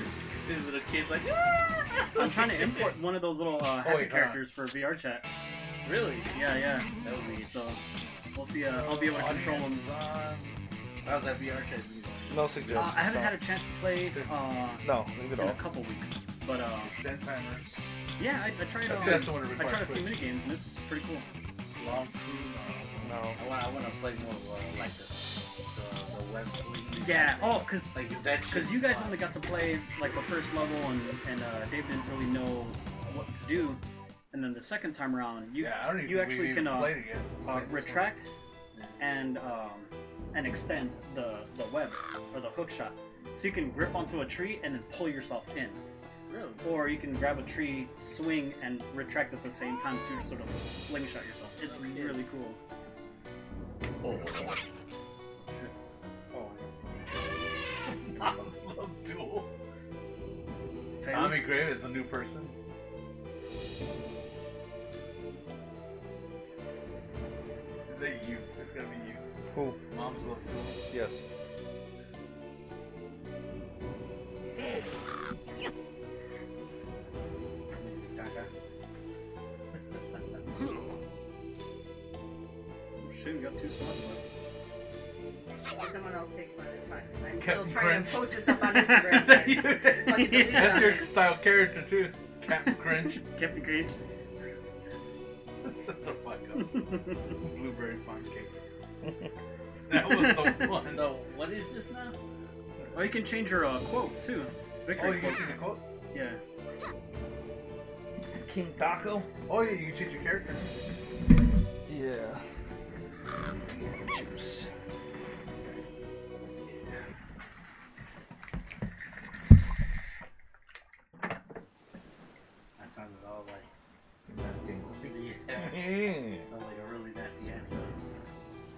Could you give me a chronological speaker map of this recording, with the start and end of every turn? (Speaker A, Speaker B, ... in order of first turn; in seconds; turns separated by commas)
Speaker A: 0.5-2.9, Speaker B: 2.1-5.3, Speaker C: 3.8-4.4, Speaker B: 5.8-7.8, Speaker A: 7.0-7.8, Speaker B: 8.3-9.8, Speaker C: 8.7-10.6, Speaker A: 11.0-13.0, Speaker D: 12.3-13.4, Speaker B: 12.7-16.9, Speaker D: 14.8-15.6, Speaker C: 16.8-17.9, Speaker B: 18.2-21.3, Speaker C: 18.9-20.2, Speaker D: 18.9-19.3, Speaker A: 21.8-29.3, Speaker C: 21.8-23.0, Speaker D: 23.0-23.4, Speaker B: 27.0-33.8, Speaker B: 34.3-38.2, Speaker C: 35.6-38.2, Speaker A: 38.7-39.0, Speaker B: 39.0-45.8, Speaker A: 46.3-46.6, Speaker B: 46.6-52.6, Speaker A: 51.8-52.1, Speaker A: 56.4-57.2, Speaker C: 58.1-59.5, Speaker B: 61.0-61.5, Speaker C: 61.1-62.5, Speaker C: 67.9-69.2, Speaker D: 69.5-69.8, Speaker C: 69.9-70.8, Speaker D: 70.9-71.2, Speaker A: 77.7-78.5, Speaker B: 83.0-84.2, Speaker E: 85.8-91.2, Speaker C: 87.4-93.3, Speaker B: 88.9-89.2, Speaker B: 90.1-90.9, Speaker B: 93.2-94.0, Speaker C: 95.6-96.8, Speaker B: 96.6-97.2, Speaker C: 97.3-98.5, Speaker C: 99.9-101.1, Speaker B: 100.2-100.6, Speaker A: 100.8-102.2, Speaker B: 102.9-106.4, Speaker C: 105.0-105.8, Speaker D: 108.3-109.3, Speaker C: 109.5-110.7, Speaker D: 111.9-112.4, Speaker D: 113.7-114.7, Speaker A: 122.8-123.7, Speaker D: 124.3-125.0, Speaker A: 124.8-127.9, Speaker D: 125.6-126.5